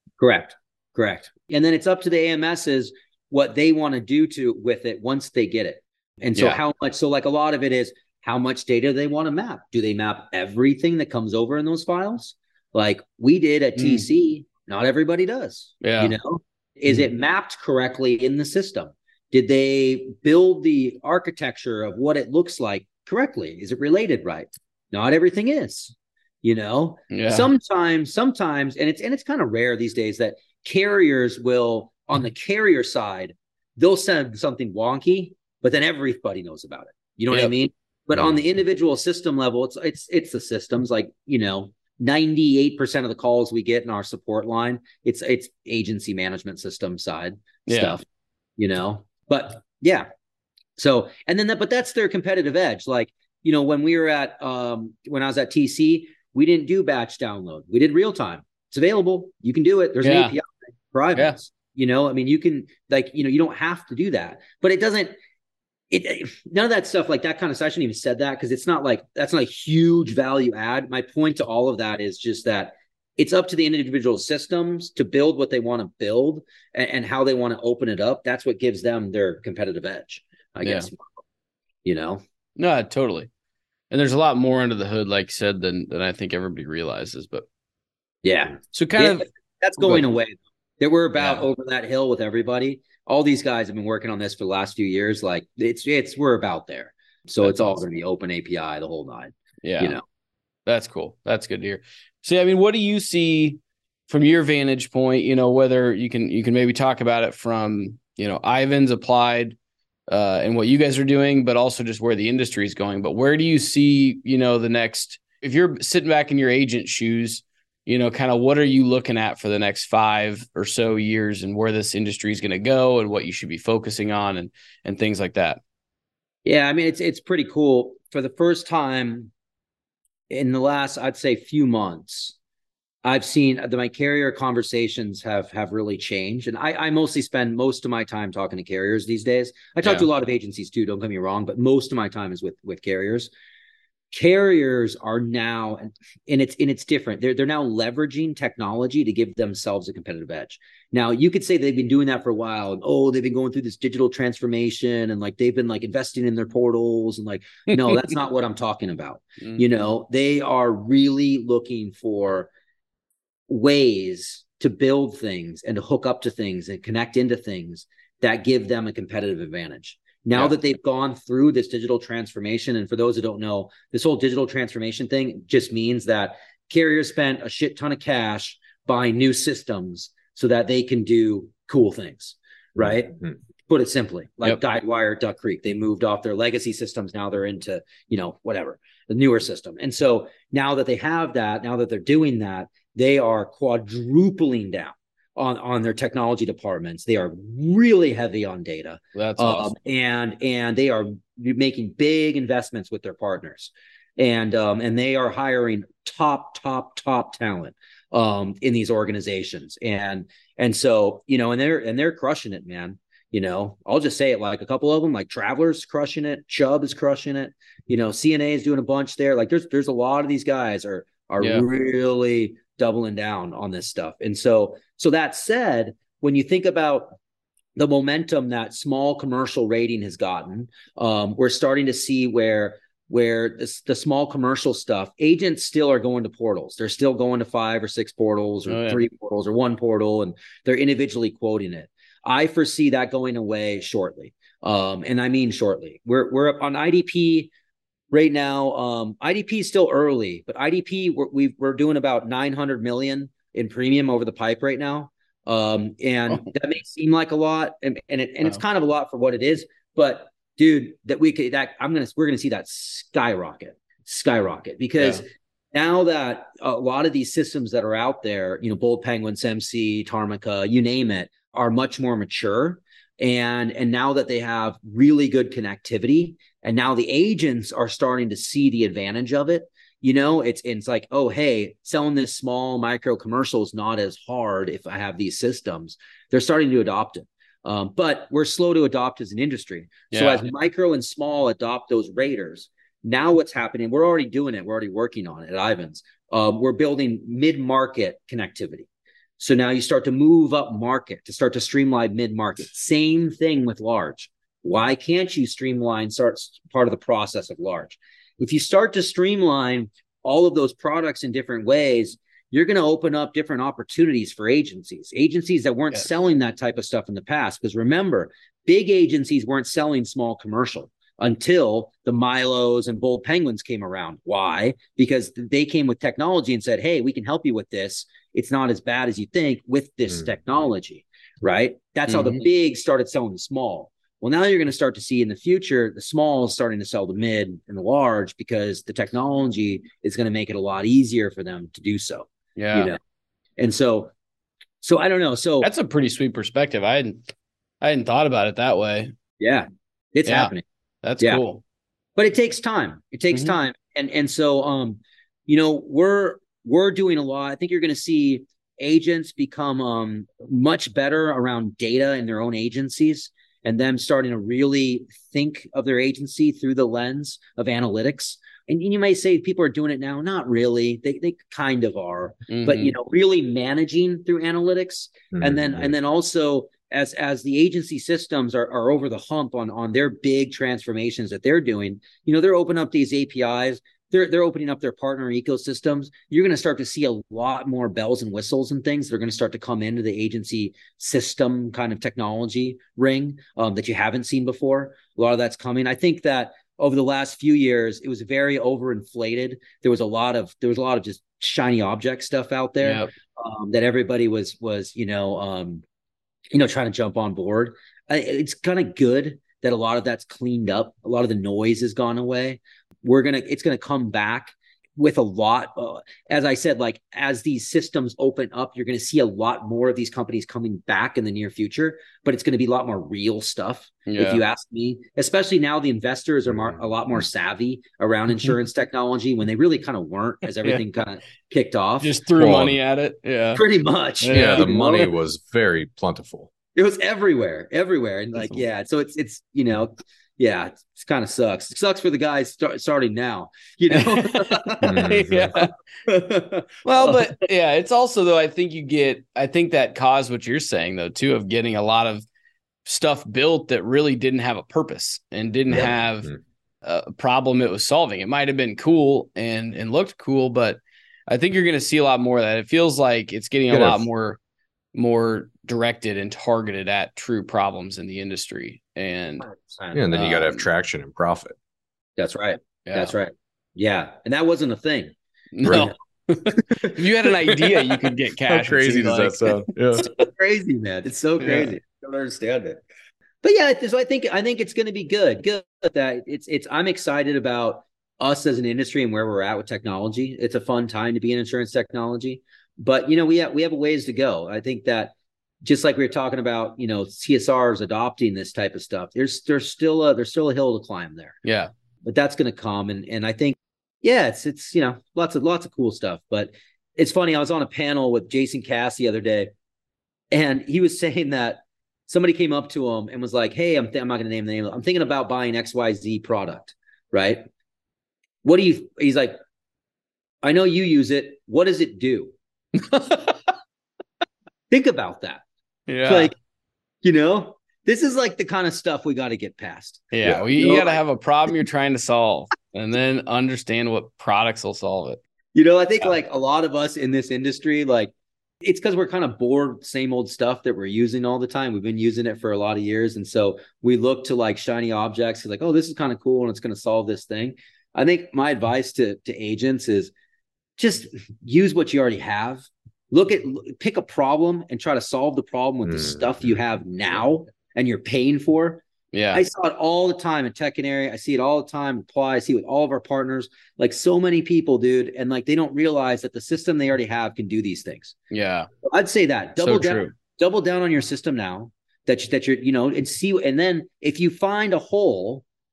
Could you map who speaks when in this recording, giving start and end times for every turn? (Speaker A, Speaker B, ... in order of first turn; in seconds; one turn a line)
Speaker A: 0.2-48.0
Speaker B: 13.8-14.1
Speaker B: 15.8-16.1
Speaker B: 27.1-27.5
Speaker B: 47.7-48.0
Speaker A: 48.6-50.1
Speaker A: 50.8-65.2
Speaker B: 60.0-60.3
Speaker A: 65.9-81.2
Speaker B: 80.6-80.9
Speaker A: 81.8-82.2
Speaker B: 82.6-83.3
Speaker B: 83.9-87.5
Speaker A: 88.2-100.0
Speaker B: 88.7-89.3
Speaker B: 89.8-90.0
Speaker B: 91.2-91.5
Speaker B: 97.4-97.8
Speaker B: 99.6-100.0
Speaker B: 100.7-109.6
Speaker B: 110.1-125.6
Speaker A: 126.5-129.3
Speaker A: 130.3-132.3
Speaker A: 133.0-143.3
Speaker A: 144.1-162.5
Speaker B: 157.7-158.0
Speaker A: 163.5-227.2
Speaker B: 199.2-199.7
Speaker A: 227.8-247.5
Speaker B: 238.7-239.0
Speaker A: 248.1-298.9
Speaker B: 290.1-290.4
Speaker A: 299.4-343.0
Speaker B: 332.1-332.4
Speaker B: 342.6-342.9
Speaker A: 343.6-344.1
Speaker A: 344.8-345.7
Speaker B: 345.6-347.2
Speaker B: 347.8-349.1
Speaker A: 349.4-350.6
Speaker B: 350.3-350.5
Speaker B: 351.0-351.6
Speaker A: 352.2-405.8
Speaker B: 372.5-372.9
Speaker C: 375.3-375.9
Speaker B: 402.8-403.1
Speaker A: 406.5-432.2
Speaker B: 424.1-424.4
Speaker B: 432.0-433.6
Speaker C: 432.4-432.8
Speaker A: 433.6-435.1
Speaker B: 434.2-435.1
Speaker C: 434.3-436.5
Speaker A: 436.8-445.1
Speaker B: 443.9-445.7
Speaker C: 444.8-445.6
Speaker A: 446.1-447.4
Speaker B: 446.9-452.2
Speaker B: 452.9-456.3
Speaker C: 455.7-456.4
Speaker B: 456.8-464.4
Speaker C: 463.7-464.0
Speaker B: 464.9-469.4
Speaker A: 469.4-470.0
Speaker C: 469.9-471.6
Speaker B: 470.1-470.6
Speaker A: 472.2-475.1
Speaker B: 472.9-473.1
Speaker B: 475.5-479.7
Speaker C: 475.6-475.9
Speaker A: 475.7-477.0
Speaker C: 478.5-480.1
Speaker A: 479.9-482.8
Speaker B: 481.4-481.8
Speaker A: 483.4-501.4
Speaker B: 501.4-501.7
Speaker A: 502.1-509.5
Speaker A: 510.3-517.5
Speaker A: 518.4-519.4
Speaker A: 520.4-522.3
Speaker B: 522.8-523.5
Speaker A: 524.7-525.4
Speaker B: 525.9-526.3
Speaker A: 526.0-526.4
Speaker A: 527.0-531.0
Speaker B: 530.1-535.2
Speaker A: 535.5-550.1
Speaker A: 550.8-568.1
Speaker B: 559.1-559.4
Speaker B: 568.3-568.7
Speaker A: 568.9-575.4
Speaker B: 569.6-570.1